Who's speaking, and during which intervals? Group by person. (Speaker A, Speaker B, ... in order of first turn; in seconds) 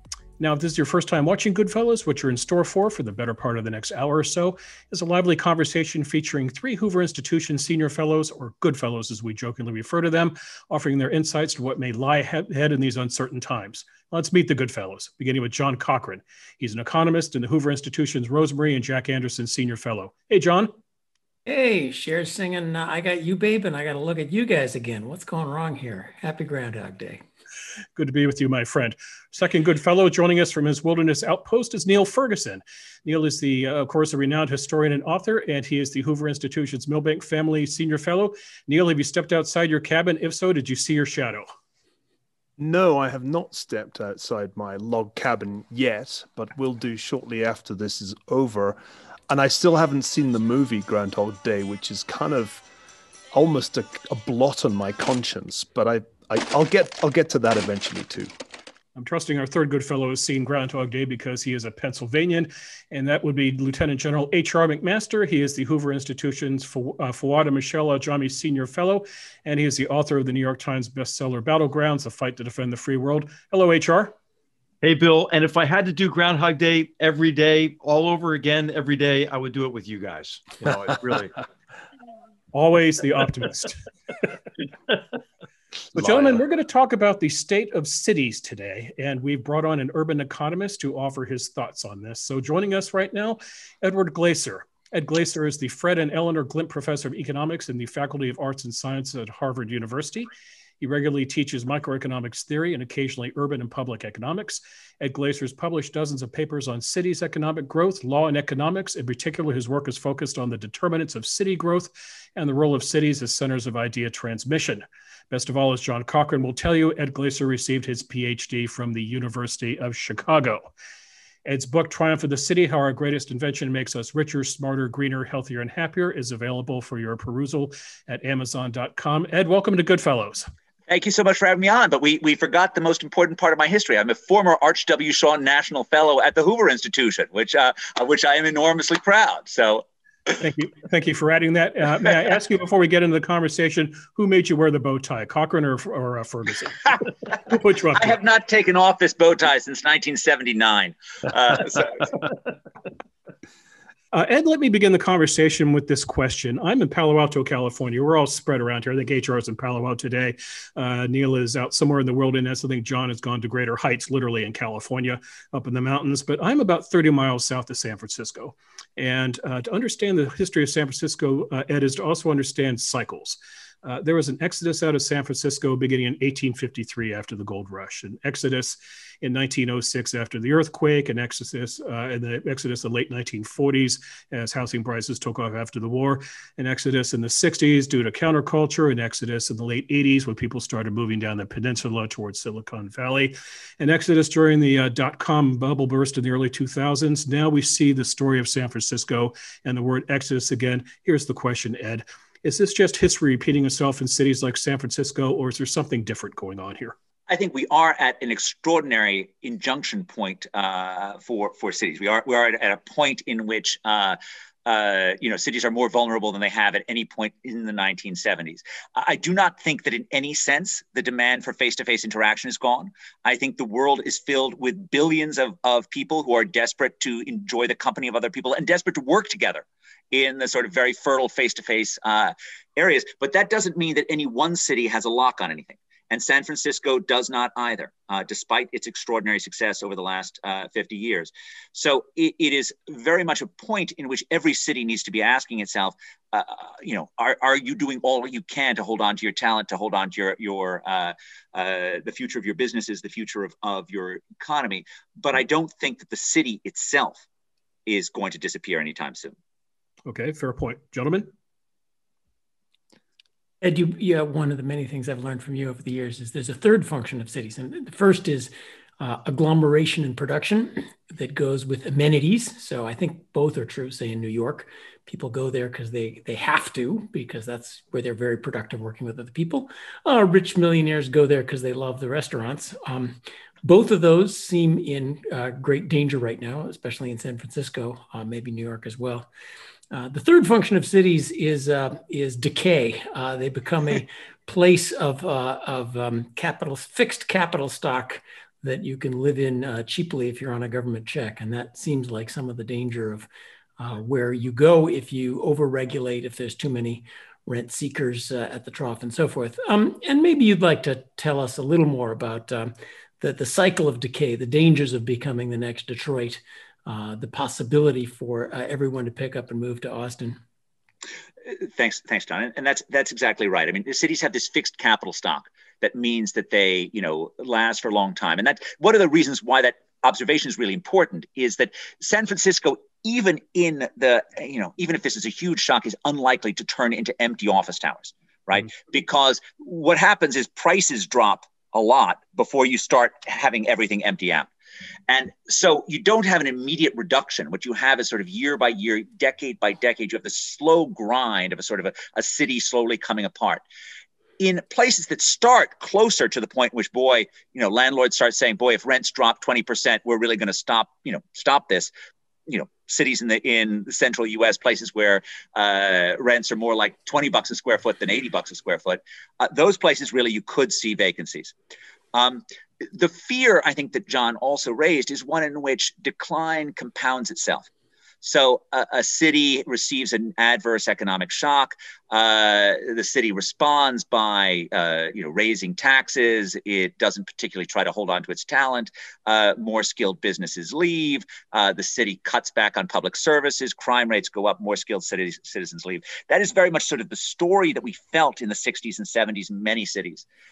Speaker A: 0.4-20.7, 27.9-41.5, 59.0-74.1, 82.5-83.8, 85.9-100.3, 100.8-120.7, 121.4-130.5, 140.3-148.1, 154.1-206.9, 260.1-261.3
Speaker B: 21.4-27.2, 263.6-289.3, 289.9-320.4
Speaker C: 42.6-52.6, 53.3-58.3
Speaker D: 74.8-81.3
Speaker E: 130.9-139.8, 147.9-152.2, 207.3-257.2, 257.9-259.3, 321.6-344.5, 345.1-353.6, 354.4-361.9, 362.5-371.5, 372.1-377.7, 378.2-400.2